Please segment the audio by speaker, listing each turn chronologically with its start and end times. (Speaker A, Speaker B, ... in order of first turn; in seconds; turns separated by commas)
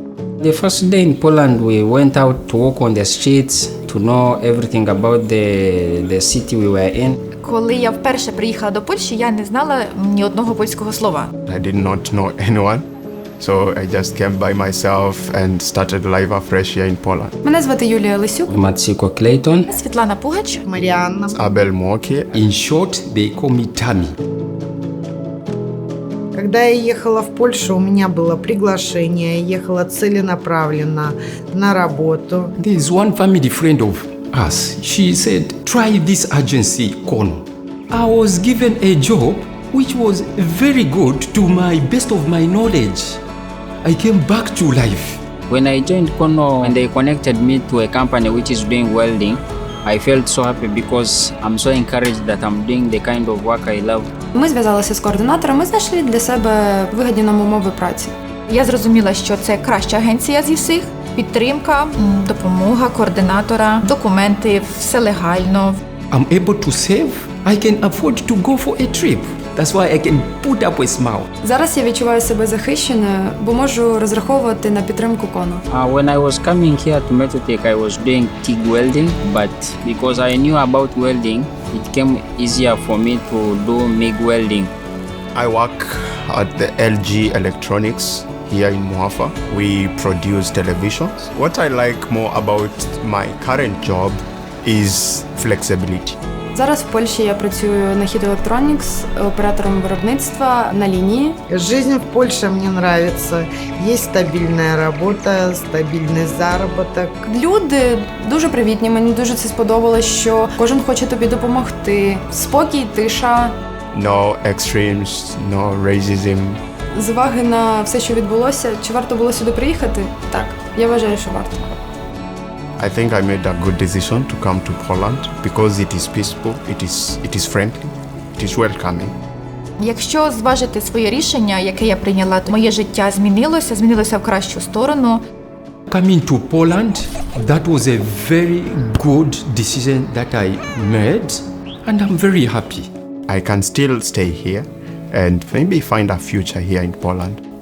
Speaker A: 0.4-7.1, Speaker B: 7.4-11.3, Speaker C: 11.5-12.8, Speaker C: 13.4-17.3, Speaker D: 17.4-18.5, Speaker A: 18.5-19.7, Speaker B: 19.7-20.6, Speaker E: 20.7-21.4, Speaker C: 21.3-22.3, Speaker F: 22.3-24.1, Speaker E: 26.3-32.5, Speaker F: 32.6-43.2, Speaker F: 43.8-45.2, Speaker A: 45.5-54.1, Speaker D: 54.3-58.1, Speaker B: 58.5-65.8, Speaker F: 66.1-71.3, Speaker D: 71.4-75.6, Speaker A: 75.7-84.7, Speaker C: 85.3-96.2, Speaker D: 96.5-101.4, Speaker E: 101.5-107.1, Speaker D: 107.2-113.5, Speaker C: 113.9-116.6, Speaker D: 116.9-121.7, Speaker C: 122.8-129.2, Speaker B: 129.8-135.2, Speaker F: 135.9-142.9, Speaker C: 143.3-147.4